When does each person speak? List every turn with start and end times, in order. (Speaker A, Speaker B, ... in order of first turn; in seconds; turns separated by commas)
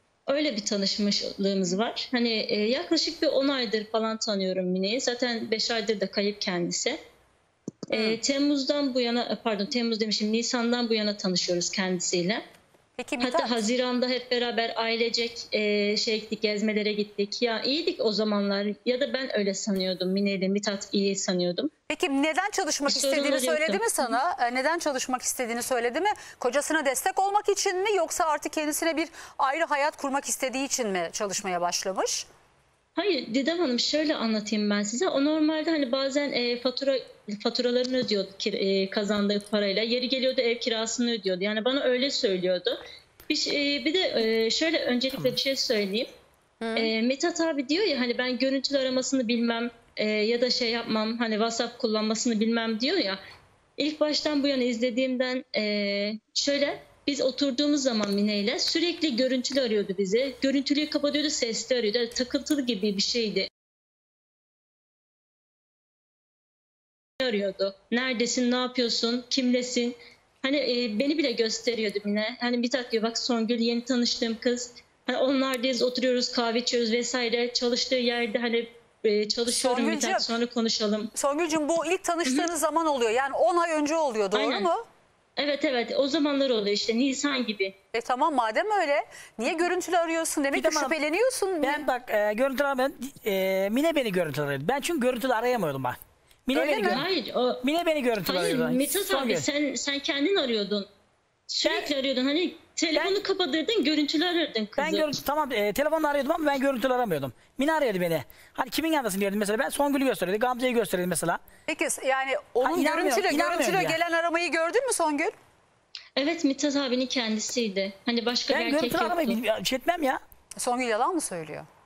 Speaker A: 0.3-7.0, Speaker A: 7.9-12.4, Speaker B: 7.9-8.2, Speaker B: 13.0-13.6, Speaker A: 13.2-21.7, Speaker B: 21.9-32.3, Speaker A: 22.9-24.2, Speaker A: 33.0-42.8, Speaker A: 43.3-46.1, Speaker B: 46.6-46.9, Speaker A: 46.8-53.2, Speaker A: 53.8-63.5, Speaker A: 67.2-81.1, Speaker B: 79.5-80.3, Speaker B: 81.1-84.8, Speaker A: 82.2-82.5, Speaker A: 84.3-84.7, Speaker A: 85.4-87.7, Speaker B: 87.9-91.9, Speaker C: 90.5-91.0, Speaker C: 91.6-97.0, Speaker B: 96.5-97.0, Speaker A: 96.9-97.6, Speaker C: 97.6-99.5, Speaker A: 98.2-100.9, Speaker A: 101.5-105.1, Speaker C: 104.8-111.4, Speaker B: 111.7-115.3, Speaker C: 112.6-114.0, Speaker A: 116.2-119.4, Speaker C: 118.5-120.2, Speaker B: 120.5-121.7